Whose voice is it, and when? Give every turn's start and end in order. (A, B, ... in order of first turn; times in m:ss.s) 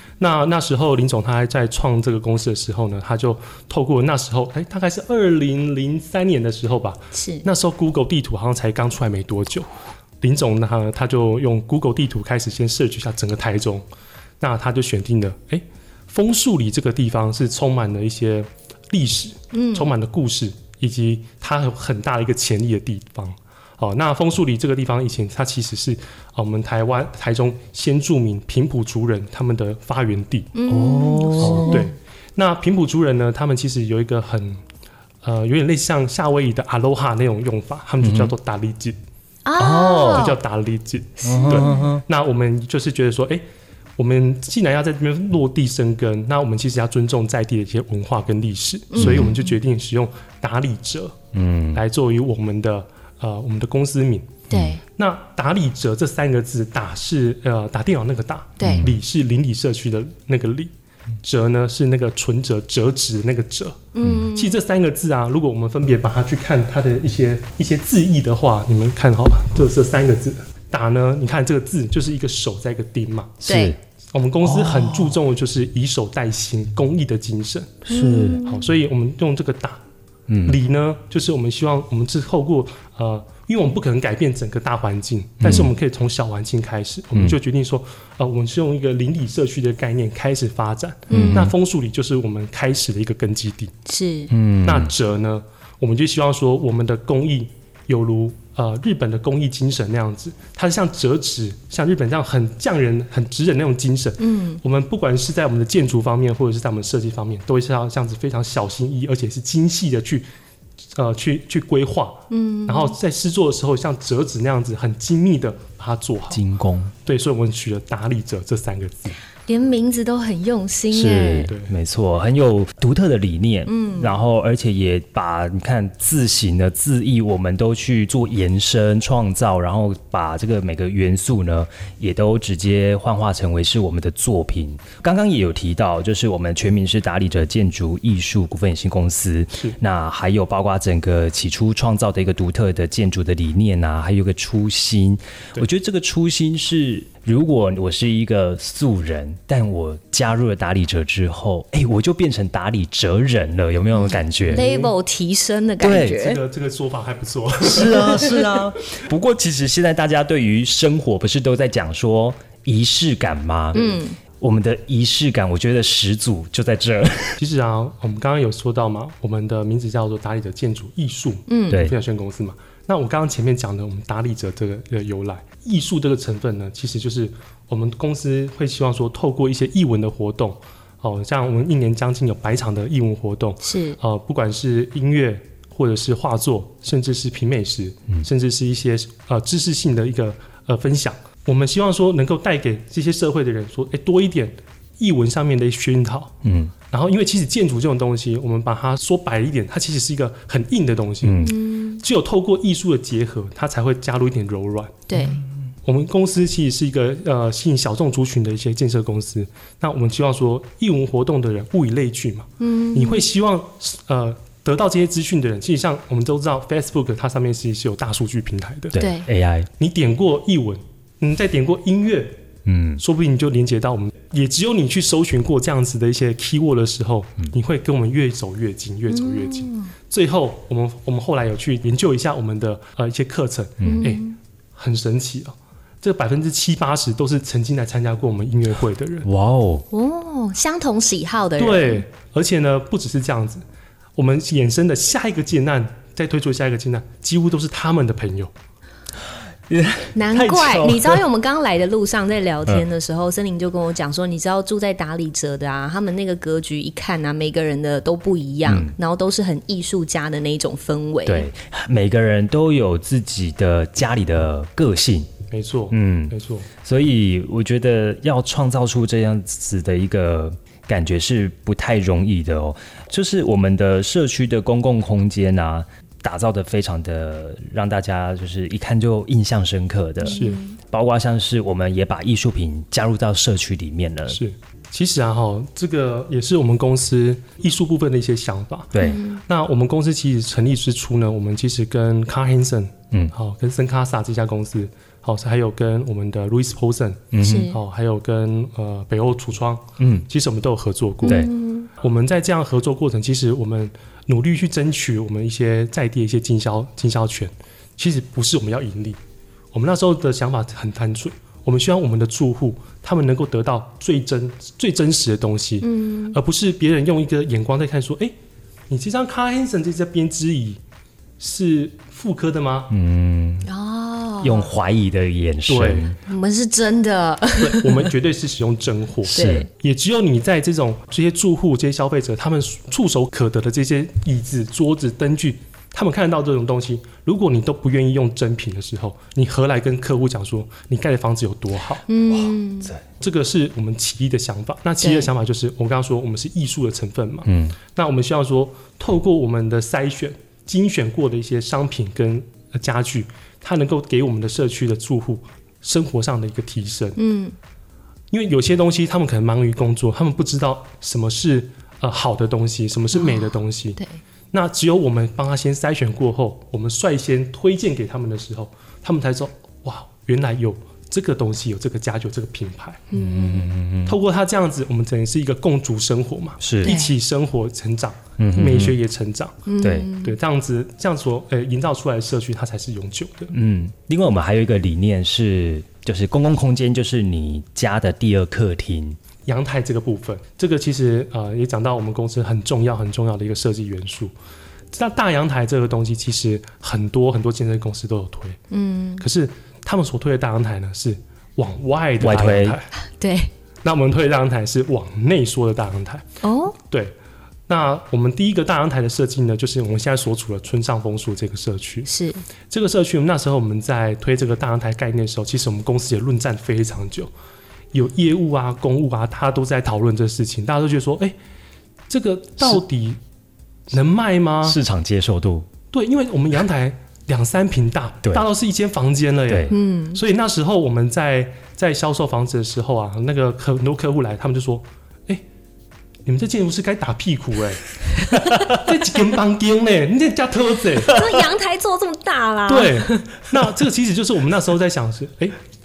0:00.2-0:09.7 A
0:07.1-0:07.4 B
0:10.2-0:13.8 A
0:14.4-0:30.5 A
0:19.5-0:19.9 B
0:30.5-0:31.9 B
0:30.7-0:31.9 C
0:31.4-0:34.6 A
0:35.2-0:39.0 A
0:38.0-0:38.3 C
0:39.4-0:40.4 B
0:39.6-0:40.3 C
0:40.0-0:43.4 A
0:41.2-0:42.0 C
0:41.3-0:41.8 B
0:44.0-0:51.1 A
0:48.9-0:49.5 B
0:49.0-0:49.3 C
0:51.3-0:51.8 C
0:51.7-1:00.7 A
0:54.5-0:54.8 C
0:54.5-0:54.8 B
0:58.6-0:58.9 B
0:58.6-0:58.9 C
1:01.2-1:13.4 A
1:03.9-1:04.6 B
1:13.4-1:13.8 C
1:13.4-1:13.7 B
1:14.1-1:17.8 A
1:14.4-1:15.2 C
1:17.8-1:18.4 C
1:17.9-1:18.7 B
1:18.4-1:19.8 A
1:20.3-1:20.6 C
1:20.4-1:33.7 A
1:25.4-1:25.7 C
1:31.1-1:31.5 B
1:31.1-1:31.5 C
1:33.8-1:34.3 B
1:34.3-1:34.9 C
1:34.6-1:50.3 A
1:44.2-1:44.6 B
1:50.9-1:56.4 A
1:52.3-1:53.0 B
1:56.3-1:56.9 C
1:57.0-1:59.2 A
1:59.5-2:01.5 B
2:00.9-2:34.6 C
2:01.4-2:01.7 A
2:03.6-2:04.2 B
2:34.0-2:36.4 B
2:34.5-2:34.9 A
2:35.8-2:36.2 C
2:36.0-2:38.5 A
2:37.6-2:47.4 C
2:43.7-2:44.2 B
2:47.4-3:16.3 A
2:51.5-2:51.8 B
2:51.7-2:51.9 C
3:03.6-3:04.0 B
3:16.4-3:16.7 C
3:16.9-3:25.2 A
3:21.2-3:21.6 C
3:21.4-3:22.0 B
3:25.1-3:25.4 B
3:25.8-3:39.0 A
3:32.6-3:33.2 B
3:38.9-3:39.7 C
3:39.0-3:39.3 B
3:39.8-3:42.4 A
3:42.6-3:43.0 C
3:43.0-3:59.3 A
3:49.1-3:49.9 B
3:53.8-3:54.1 C
3:53.8-3:54.4 B
3:59.2-3:59.8 C
3:59.9-4:02.0 B
4:01.6-4:03.6 A
4:04.2-4:08.5 A
4:09.7-4:11.2 C
4:10.1-4:21.5 B
4:18.6-4:18.9 C
4:21.2-4:25.3 C
4:25.5-4:26.7 A
4:25.9-4:44.4 C
4:40.2-4:40.7 B
4:40.3-4:40.6 A
4:44.3-5:09.2 A
4:48.9-4:49.2 C
4:49.0-4:49.4 B
4:57.3-4:57.7 C
4:57.4-4:57.8 B
5:00.0-5:00.2 C
5:01.2-5:01.9 B
5:01.2-5:01.5 C
5:09.7-5:18.3 A
5:15.8-5:16.4 B
5:18.9-5:20.8 A
5:21.4-5:22.9 A
5:22.9-5:23.7 C
5:23.6-5:24.7 B
5:24.4-5:26.2 C
5:25.7-5:26.1 A
5:26.2-5:28.1 B
5:27.6-5:42.0 A
5:29.2-5:29.7 C
5:29.3-5:29.7 B
5:42.1-5:42.9 B
5:42.3-5:43.0 C
5:43.2-5:57.2 A
5:45.0-5:45.3 B
5:47.4-5:47.8 C
5:57.2-5:57.5 B
5:58.3-6:04.0 A
6:03.1-6:04.2 B
6:04.5-6:13.1 A
6:13.1-6:13.7 B
6:13.2-6:14.2 C
6:14.0-6:23.5 A
6:16.6-6:16.9 C
6:16.8-6:17.1 B
6:18.4-6:19.0 C
6:19.7-6:20.4 B
6:19.8-6:20.1 C
6:23.5-6:29.2 C
6:29.4-6:34.3 A
6:34.9-6:38.6 A
6:38.7-6:39.2 B
6:39.2-6:42.9 A
6:42.2-6:42.8 C
6:43.0-6:43.5 B
6:43.8-6:46.2 A
6:46.4-6:46.8 B
6:46.9-6:47.1 A
6:47.7-6:52.1 A
6:52.0-6:52.4 B
6:52.7-6:57.3 A
6:57.9-7:01.3 A
7:02.1-7:03.2 A
7:03.9-7:04.8 A
7:04.6-7:05.7 C
7:05.9-7:15.4 A
7:09.5-7:09.7 C
7:09.7-7:10.2 B
7:16.2-7:17.9 A
7:18.4-7:18.8 C
7:18.6-7:21.2 A
7:21.0-7:23.3 B
7:22.7-7:25.6 A